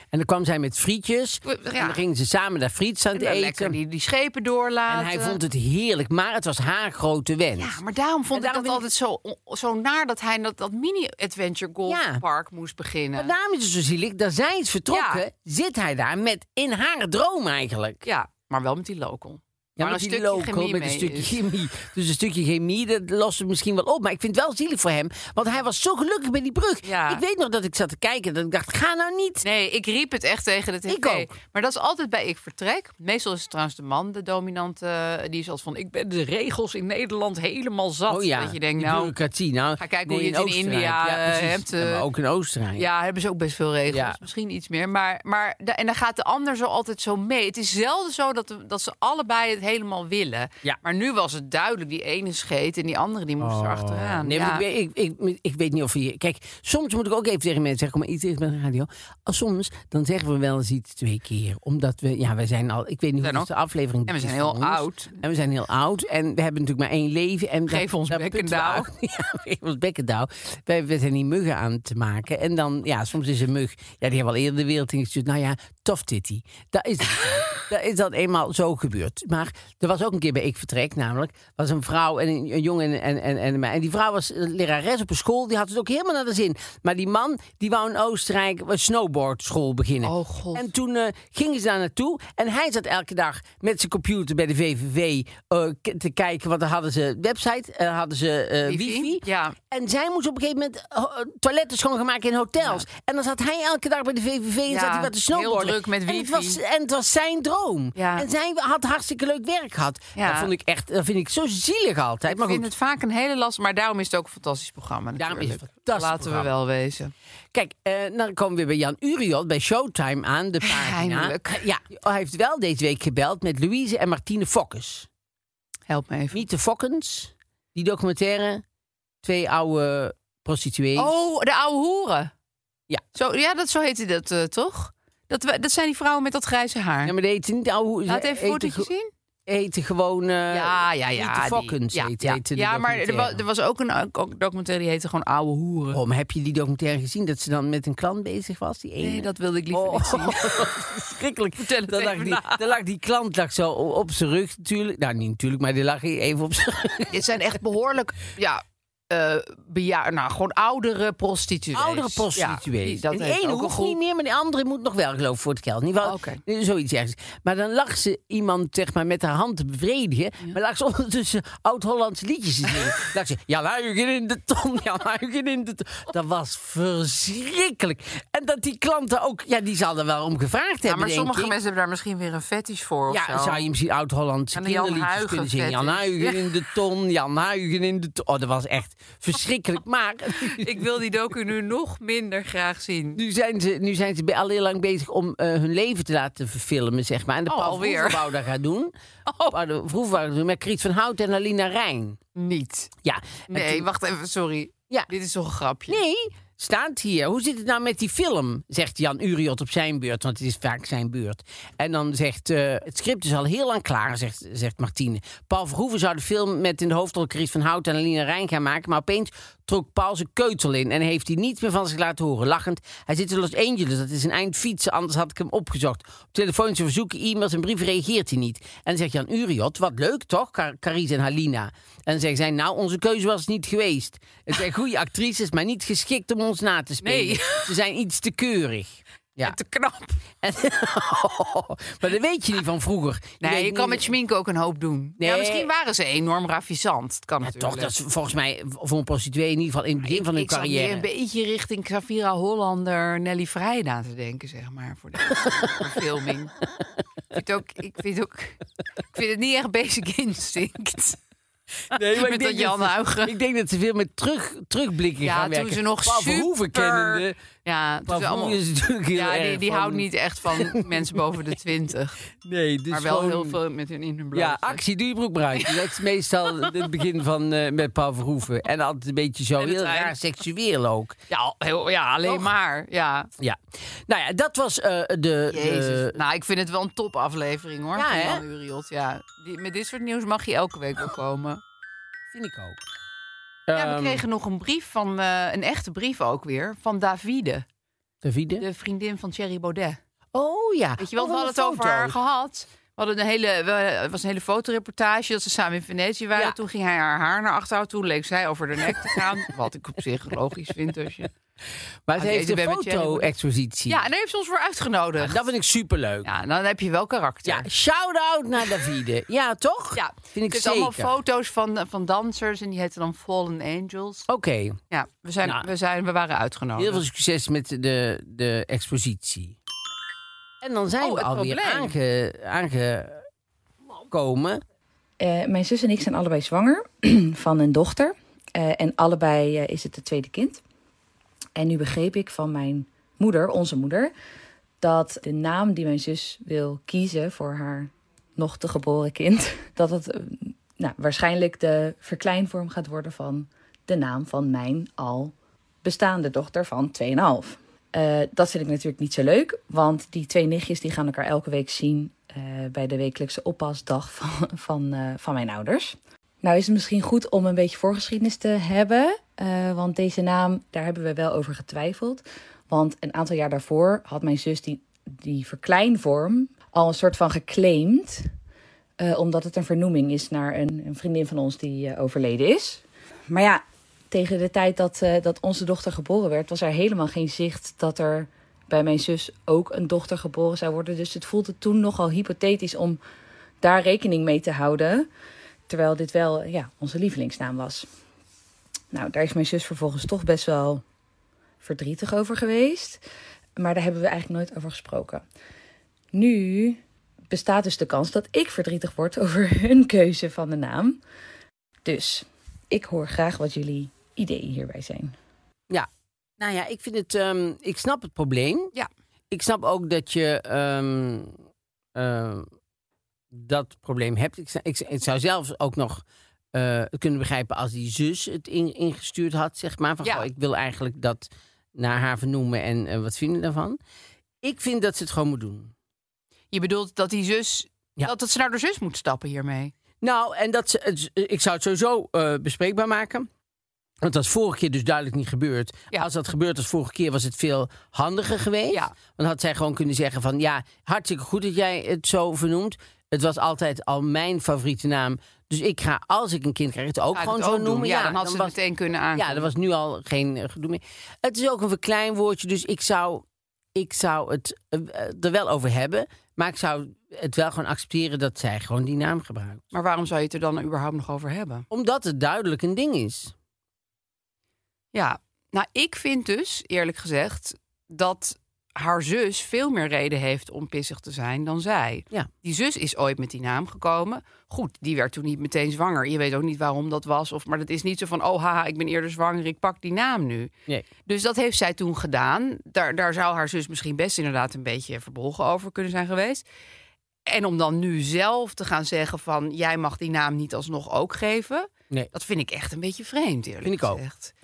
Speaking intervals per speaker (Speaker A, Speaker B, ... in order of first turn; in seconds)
Speaker A: 0.1-3.8, 4.9-7.8, 8.3-8.9, 11.8-12.2, 13.2-18.0, 19.8-29.4, 30.9-31.3, 38.1-42.9, 43.9-44.2, 53.4-112.7, 115.2-116.5, 117.5-125.1, 126.3-128.6, 129.2-131.2, 137.0-138.9, 139.5-143.4, 145.9-157.2, 161.7-181.5, 183.1-190.8, 193.1-198.9, 199.5-202.2, 203.0-203.9, 205.9-239.6, 240.4-244.1, 245.2-245.7, 247.4-251.1, 255.3-255.9, 261.8-267.4, 268.1-271.2, 272.4-273.6, 274.3-281.2, 282.2-282.5, 283.4-286.2, 287.9-288.4, 292.3-292.8, 293.7-294.2, 298.2-298.6, 300.3-302.2, 308.8-309.4, 312.1-314.0, 315.2-316.3, 317.4-321.1, 324.3-324.8, 325.4-325.7, 326.8-329.6, 330.6-333.2, 334.1-334.6, 415.7-418.7, 419.3-421.4, 421.9-422.5, 423.3-433.8, 434.4-435.7, 440.0-443.3, 444.0-458.5, 459.1-469.6, 471.7-473.3, 503.6-504.0
Speaker B: 1.4-2.0, 3.1-5.4, 7.6-13.3, 14.9-15.2, 18.0-21.4, 26.8-27.2, 29.4-39.1, 39.8-42.0, 42.8-54.6, 63.2-63.5, 64.1-65.2, 67.7-68.9, 90.0-90.7, 98.6-99.5, 102.6-102.8, 104.7-106.6, 108.0-108.3, 110.1-110.5, 112.3-117.1, 120.6-121.6, 125.9-126.4, 130.9-132.3, 133.1-137.1, 138.1-139.1, 140.5-146.0, 149.0-150.8, 151.6-152.7, 157.1-164.0, 166.0-166.4, 180.8-183.6, 184.5-186.5, 190.4-193.2, 197.4-198.3, 199.2-199.6, 202.3-202.9, 203.5-206.0, 237.0-237.7, 239.4-240.2, 243.4-247.9, 250.0-256.5, 257.3-258.6, 259.1-261.2, 261.9-263.4, 265.2-268.6, 269.1-272.2, 272.9-274.8, 279.6-280.2, 281.3-283.3, 285.5-291.6, 293.7-297.6, 298.6-300.0, 301.0-311.3, 312.1-313.3, 313.9-315.5, 316.2-317.6, 319.9-324.3, 324.9-327.0, 331.0-331.9, 436.5-439.7, 457.1-459.5, 469.7-471.6, 474.9-490.5, 491.1-496.4, 497.2-504.3
Speaker C: 335.2-340.6, 341.6-344.1, 344.8-355.3, 355.8-378.3, 379.0-393.0, 393.6-395.1, 395.7-397.9, 398.9-400.8, 401.6-403.0, 403.6-405.2, 406.1-411.0, 411.8-415.1